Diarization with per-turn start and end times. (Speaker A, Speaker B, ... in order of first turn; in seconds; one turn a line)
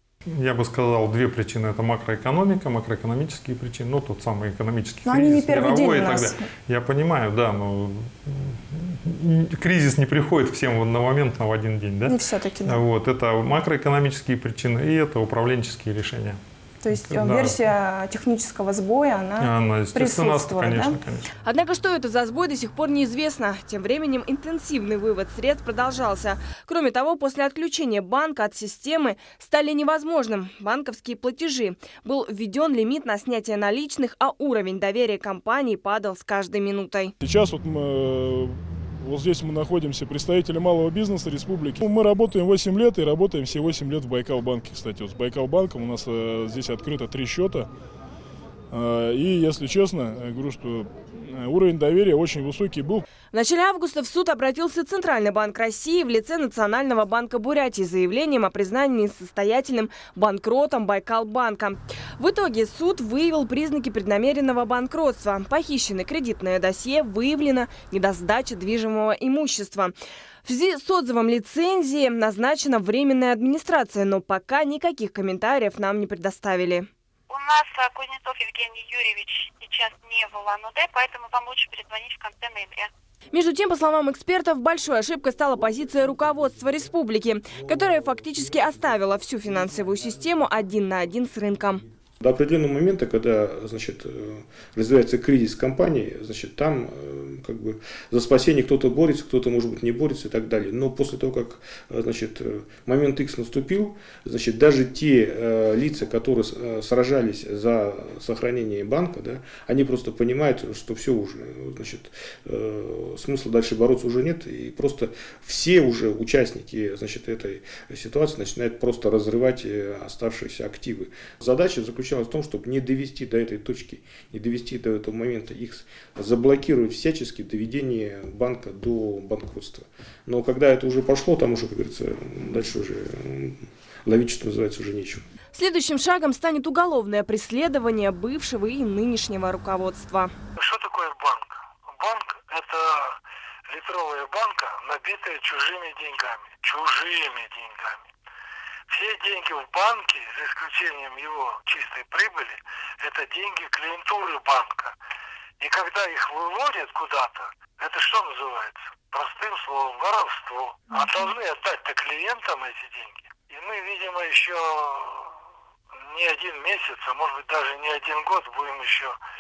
Speaker A: 0.3-16.4
Speaker B: 5.0-6.4
Speaker B: 12.1-12.8
Speaker B: 16.8-20.9
Speaker A: 16.9-17.6
Speaker A: 19.4-21.2
Speaker C: 21.4-37.1
Speaker D: 37.2-47.7
Speaker D: 48.7-53.0
Speaker C: 53.3-69.9
Speaker C: 70.4-76.9
Speaker E: 77.3-82.9
Speaker C: 83.3-91.8
Speaker F: 92.2-135.2
Speaker C: 135.5-140.3
Speaker G: 140.6-148.1
Speaker G: 148.9-154.9
Speaker G: 155.6-165.3
Speaker G: 166.1-169.2